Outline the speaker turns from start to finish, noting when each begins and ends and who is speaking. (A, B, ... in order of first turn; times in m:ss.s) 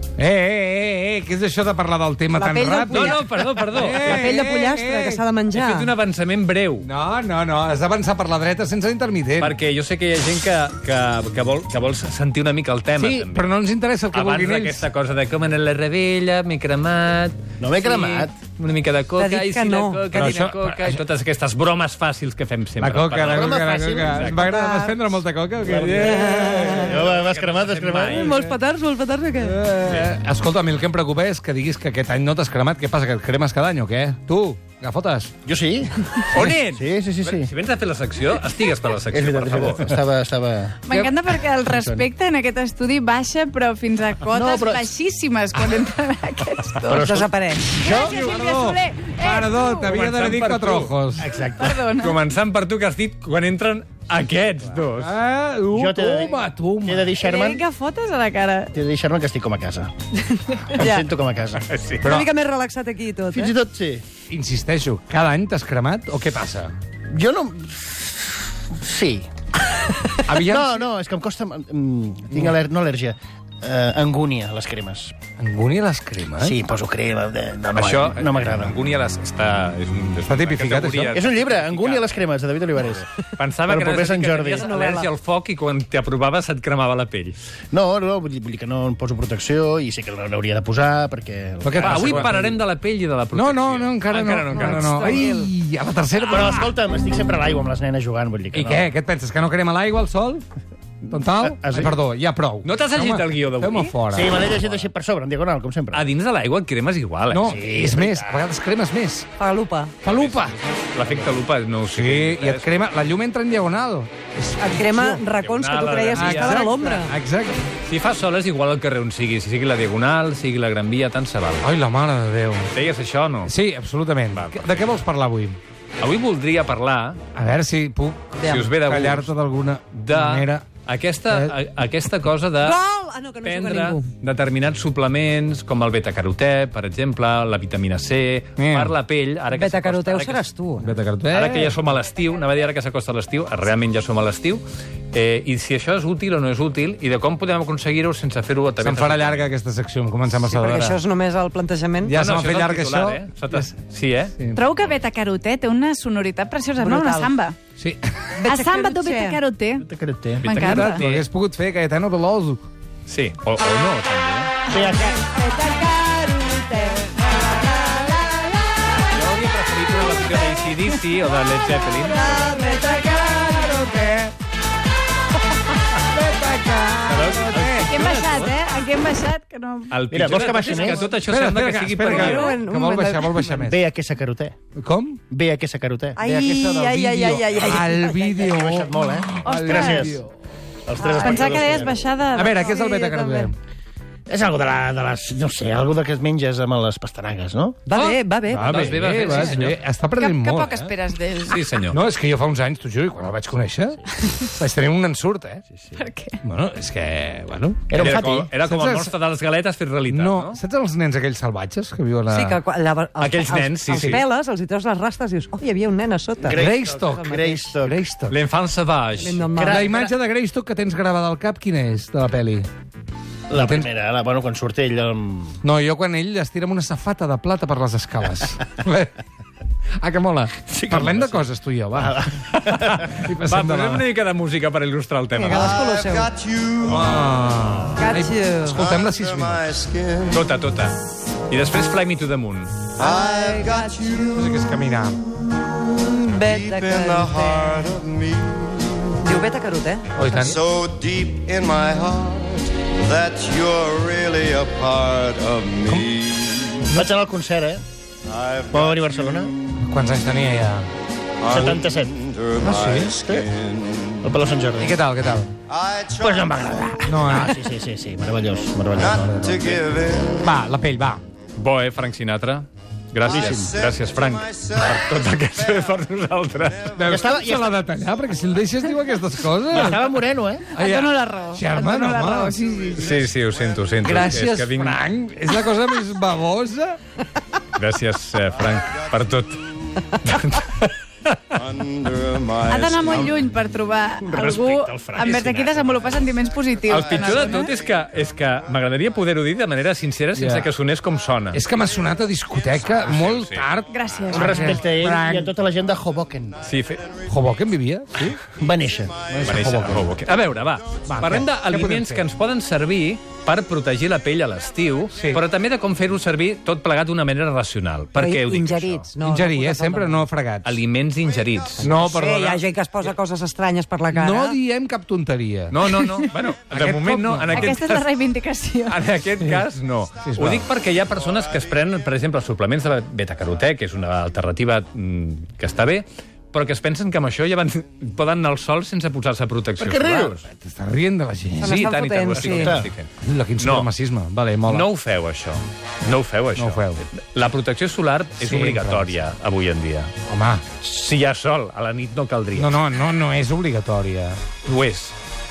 0:00.2-0:05.2 A
0:02.3-0:05.9 B
0:02.9-0:04.2 C
0:05.5-0:06.9 C
0:06.8-0:09.5 A
0:09.4-0:13.5 C
0:13.0-0:14.8 A
0:14.1-0:24.5 C
0:17.6-0:18.3 D
0:19.2-0:20.5 B
0:20.1-0:21.0 A
0:22.8-0:27.0 A
0:23.1-0:24.2 D
0:24.3-0:25.2 B
0:25.6-0:28.3 D
0:26.0-0:27.1 B
0:27.0-0:28.4 C
0:28.1-0:29.6 B
0:28.2-0:28.6 A
0:29.4-0:35.3 A
0:35.4-0:37.5 D
0:36.3-0:40.0 C
0:39.1-0:41.0 D
0:40.8-0:47.0 E
0:41.6-0:42.0 D
0:44.3-0:44.9 D
0:46.8-0:48.0 B
0:46.9-0:47.3 D
0:47.8-0:49.9 E
0:47.8-0:51.3 A
0:49.8-0:51.2 C
0:51.2-0:51.8 D
0:51.5-0:52.2 E
0:51.9-0:55.1 C
0:55.0-0:57.1 A
0:55.7-0:57.6 D
0:57.2-0:58.7 E
0:58.7-0:59.9 D
1:00.7-1:01.0 B
1:00.7-1:01.6 D
1:01.6-1:02.1 C
1:02.0-1:02.3 A
1:02.0-1:03.5 B
1:03.3-1:04.0 D
1:04.3-1:06.7 A
1:07.1-1:09.3 D
1:09.9-1:10.2 B
1:10.2-1:10.8 A
1:10.3-1:15.1 D
1:15.4-1:16.6 A
1:16.4-1:18.7 D
1:17.7-1:22.2 C
1:20.2-1:21.2 A
1:21.1-1:23.0 D
1:22.8-1:27.4 C
1:23.6-1:24.7 D
1:24.5-1:25.1 B
1:27.7-1:32.5 D
1:31.6-1:32.5 A
1:31.8-1:35.3 C
1:33.3-1:36.7 A
1:34.5-1:35.5 B
1:36.2-1:38.9 D
1:38.5-1:40.4 A
1:41.1-1:44.4 A
1:41.4-1:41.9 D
1:42.6-1:44.8 C
1:44.1-1:46.1 D
1:45.9-1:47.5 C
1:47.3-1:49.3 A
1:47.4-1:48.5 D
1:49.4-1:49.9 B
1:50.0-1:50.6 A
1:50.1-1:52.8 C
1:51.9-1:55.2 A
1:54.6-1:57.1 B
1:55.4-1:56.6 C
1:56.1-1:57.6 A
1:57.8-2:01.6 C
2:01.6-2:02.7 A
2:02.7-2:03.5 C
2:03.4-2:05.6 A
2:04.3-2:04.8 C
2:06.0-2:07.2 C
2:07.3-2:10.7 A
2:08.4-2:08.6 B
2:08.4-2:09.3 C
2:09.9-2:12.8 C
2:12.6-2:14.1 B
2:13.4-2:20.4 C
2:18.6-2:19.0 A
2:19.5-2:21.0 B
2:20.8-2:21.8 A
2:21.3-2:29.5 C
2:28.8-2:31.0 A
2:30.3-2:32.2 B
2:32.0-2:33.7 A
2:32.1-2:34.9 C
2:34.5-2:37.6 E
2:36.8-2:37.3 B
2:37.8-2:38.1 A
2:38.4-2:39.4 B
2:38.4-2:39.9 E
2:39.8-2:40.5 D
2:40.4-2:41.0 E
2:40.4-2:41.2 C
2:40.6-2:42.6 A
2:43.1-2:44.6 C
2:44.7-2:45.2 D
2:44.7-2:45.4 E
2:45.3-2:47.0 B
2:49.1-2:52.5 C
2:52.3-2:54.3 A
2:52.4-2:53.4 B
2:56.0-2:57.9 A
2:57.0-2:58.6 C
2:57.8-3:00.0 E
2:59.9-3:02.5 C
3:00.1-3:01.0 D
3:01.2-3:03.8 A
3:02.0-3:03.7 B
3:03.6-3:04.5 D
3:04.8-3:05.2 A
3:05.3-3:06.2 D
3:06.2-3:08.7 B
3:06.2-3:10.3 A
3:08.3-3:10.2 D
3:09.4-3:10.1 E
3:10.8-3:12.0 D
3:11.0-3:11.8 B
3:11.1-3:12.6 E
3:12.3-3:13.6 A
3:12.5-3:13.5 B
3:14.3-3:17.8 D
3:17.8-3:19.0 B
3:17.9-3:19.8 C
3:18.5-3:20.9 A
3:19.2-3:19.6 E
3:20.2-3:21.6 E
3:21.4-3:22.0 C
3:21.9-3:25.6 A
3:25.7-3:26.0 D
3:26.0-3:26.4 E
3:26.4-3:29.1 A
3:27.9-3:28.5 D
3:28.0-3:30.6 C
3:30.1-3:32.6 A
3:32.3-3:37.7 B
3:33.2-3:34.2 C
3:33.9-3:34.2 A
3:36.4-3:38.0 D
3:36.4-3:37.3 A
3:37.8-3:38.4 A
3:38.3-3:39.4 C
3:39.2-3:39.9 B
3:39.5-3:40.1 D
3:39.6-3:42.7 A
3:43.5-3:45.6 D
3:43.5-3:43.9 A
3:45.6-3:49.2 A
3:50.0-3:52.2 A
3:50.7-3:53.2 D
3:52.5-3:55.8 C
3:53.1-3:54.1 A
3:55.3-3:56.3 B
3:55.6-3:57.1 F
3:56.8-4:00.0 A
3:58.0-3:58.8 B
3:58.8-4:00.4 F
4:00.3-4:01.0 C
4:01.5-4:02.8 C
4:03.0-4:04.5 B
4:03.0-4:04.3 F
4:04.3-4:05.2 A
4:05.8-4:07.9 B
4:06.4-4:09.0 F
4:09.0-4:10.5 B
4:10.1-4:10.6 A
4:10.6-4:16.8 F
4:15.9-4:16.1 A
4:16.9-4:17.8 D
4:18.3-4:19.1 F
4:18.7-4:19.5 D
4:19.8-4:20.9 A
4:21.5-4:22.2 D
4:21.5-4:24.3 F
4:22.6-4:23.2 A
4:23.1-4:23.5 D
4:24.2-4:25.0 D
4:24.8-4:25.5 A
4:25.8-4:27.2 F
4:26.2-4:29.3 D
4:27.0-4:27.6 A
4:29.0-4:29.6 A
4:29.2-4:30.4 F
4:30.4-4:31.2 A
4:31.6-4:37.0 C
4:33.2-4:33.8 D
4:34.6-4:35.0 F
4:36.9-4:40.0 A
4:37.0-4:37.7 D
4:39.7-4:40.7 D
4:40.7-4:42.9 E
4:40.8-4:42.6 A
4:42.9-4:45.0 C
4:44.0-4:47.0 A
4:47.7-4:51.4 C
4:51.7-4:53.4 F
4:52.6-4:57.7 E
4:54.2-4:56.0 D
4:56.9-5:01.6 C
4:57.2-4:57.6 F
5:00.3-5:00.7 A
5:01.5-5:05.5 A
5:02.9-5:03.7 C
5:03.9-5:04.8 E
5:04.3-5:06.6 D
5:06.6-5:07.1 C
5:07.2-5:08.4 A
5:08.5-5:09.2 D
5:09.3-5:10.2 A
5:09.4-5:19.1 C
5:11.1-5:12.2 A
5:15.1-5:15.4 A
5:18.1-5:20.3 B
5:19.2-5:20.8 A
5:20.6-5:21.9 C
5:21.8-5:22.6 A
5:21.8-5:24.6 B
5:24.1-5:25.8 A
5:25.7-5:28.1 C
5:26.7-5:27.8 A
5:27.5-5:29.0 E
5:28.9-5:40.4 C
5:30.2-5:30.7 A
5:39.8-5:40.4 D
5:40.4-5:41.9 A
5:41.6-5:42.8 B
5:41.6-5:43.9 C
5:42.3-5:42.9 D
5:43.2-5:44.9 A
5:44.6-5:50.1 C
5:46.6-5:47.0 A
5:48.4-5:49.2 A
5:50.3-5:50.6 A
5:50.8-5:52.8 C
5:52.6-5:54.5 A
5:54.6-5:55.1 C